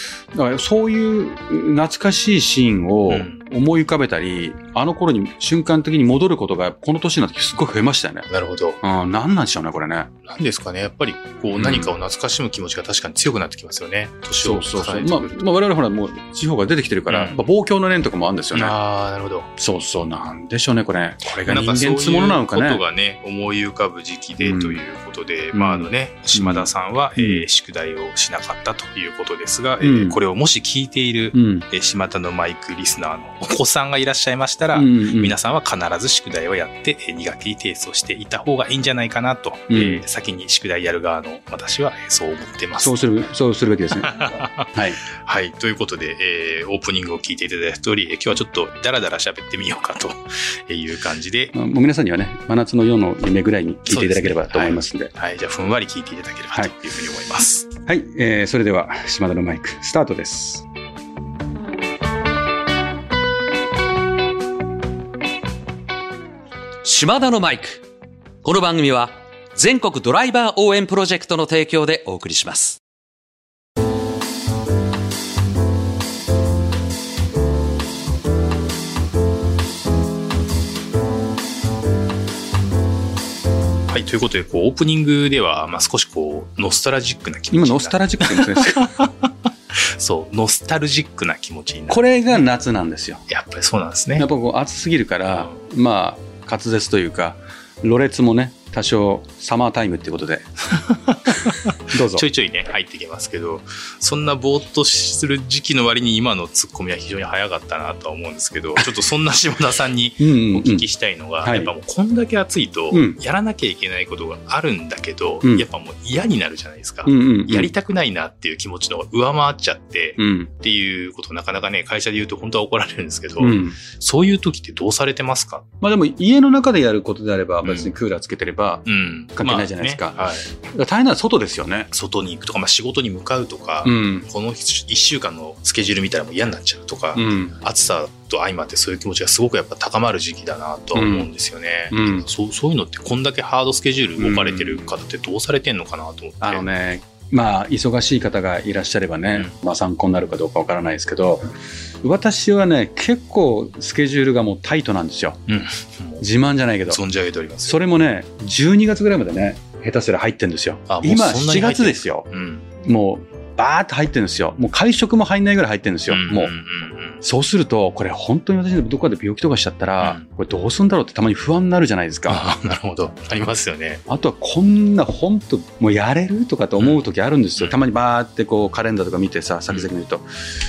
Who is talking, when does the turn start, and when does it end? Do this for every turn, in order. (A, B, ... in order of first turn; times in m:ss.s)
0:00.3-0:08.3 A
0:03.1-0:03.4 B
0:08.3-0:08.8 B
0:08.8-0:10.1 A
0:10.2-0:15.4 B
0:11.5-0:11.9 A
0:14.4-0:18.8 A
0:17.1-0:17.4 B
0:18.5-0:19.5 B
0:19.6-0:22.8 A
0:21.4-0:43.1 B
0:24.4-0:24.8 A
0:25.5-0:27.5 A
0:29.8-0:30.2 A
0:31.3-0:31.7 A
0:34.7-0:35.4 A
0:39.7-0:40.0 A
0:42.8-0:45.0 A
0:43.9-0:44.7 B
0:45.2-0:51.5 B
0:51.5-0:55.1 A
0:53.9-0:57.7 B
0:57.9-1:00.6 A
1:06.8-1:07.8 C
1:08.4-1:12.8 C
1:23.9-1:29.3 B
1:27.5-1:28.9 A
1:29.9-1:32.5 B
1:31.9-1:33.3 A
1:33.3-1:34.3 B
1:34.2-1:40.4 A
1:35.3-1:35.6 B
1:40.7-2:05.6 B
1:41.9-1:42.3 A
1:50.2-1:50.9 A
1:51.4-1:51.7 A
1:52.9-1:53.2 A
1:57.0-1:57.7 A
2:00.2-2:00.5 A
2:03.4-2:03.8 A
2:05.8-2:11.9 A
2:07.6-2:07.9 B
2:08.9-2:10.5 B
2:11.9-2:26.7 B
2:13.8-2:14.3 A
2:17.2-2:17.6 A
2:20.9-2:21.3 A
2:21.9-2:22.3 A
2:24.2-2:24.9 A
2:26.4-2:31.5 A
2:32.0-2:35.4 A
2:35.5-2:36.3 B
2:36.2-2:37.0 A
2:36.9-2:37.8 B
2:37.7-2:42.3 A
2:40.9-2:42.7 B
2:42.8-2:46.6 A
2:46.1-2:47.2 B
2:47.2-2:52.5 A
2:50.0-2:50.3 B
2:52.3-2:54.0 B
2:54.1-3:00.3 A